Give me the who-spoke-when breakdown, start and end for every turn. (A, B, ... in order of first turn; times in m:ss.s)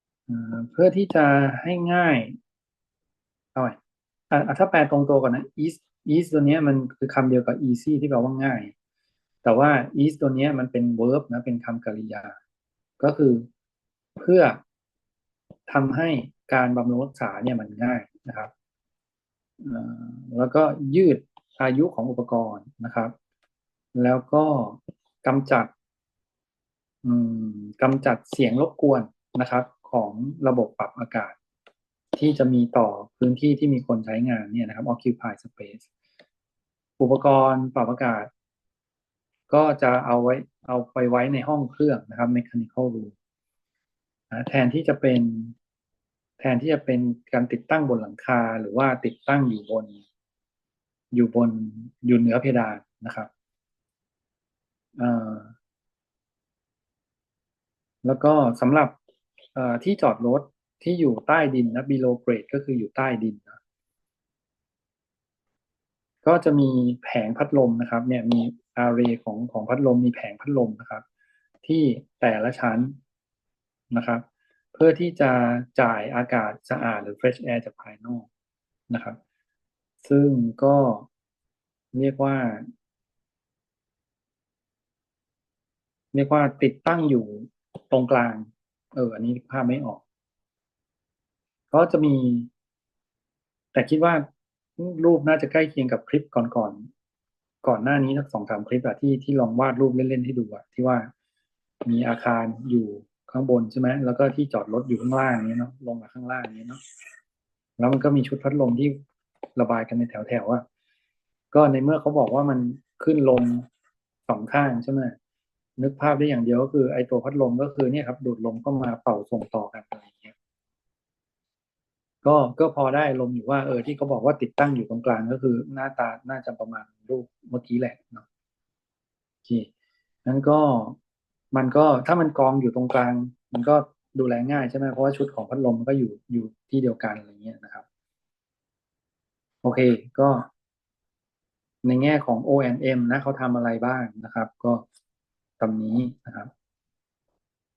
0:00.3-0:02.4 A
0:04.3-0:08.7 A
0:09.4-0:12.3 A
0:13.0-0:13.5 A
0:14.2-0:14.6 A
0:15.7-0:18.5 A
0:19.6-0:23.1 A
0:23.9-0:25.7 A
0:27.0-0:31.4 A
0:32.1-0:35.9 A
0:37.0-0:38.3 A
0:39.5-0:43.1 A
0:44.3-0:45.5 A
0:46.4-0:50.0 A
0:51.1-0:53.3 A
0:55.0-0:55.5 A
0:58.0-0:59.0 A
0:59.5-1:03.6 A
1:06.2-1:11.0 A
1:11.6-1:13.0 A
1:13.9-1:18.3 A
1:18.9-1:19.2 A
1:20.0-1:21.1 A
1:21.9-1:22.7 A
1:26.1-1:30.0 A
1:31.7-1:32.5 A
1:33.7-1:34.2 A
1:34.8-1:36.9 A
1:37.6-1:41.1 A
1:41.8-1:46.8 A
1:47.8-1:49.0 A
1:49.6-1:50.6 A
1:51.5-1:53.6 A
1:54.3-1:55.1 A
1:55.8-2:00.3 A
2:02.2-2:08.2 A
2:10.2-2:11.0 A
2:11.5-2:17.8 A
2:19.6-2:20.5 A
2:21.8-2:24.8 A
2:25.6-2:26.5 A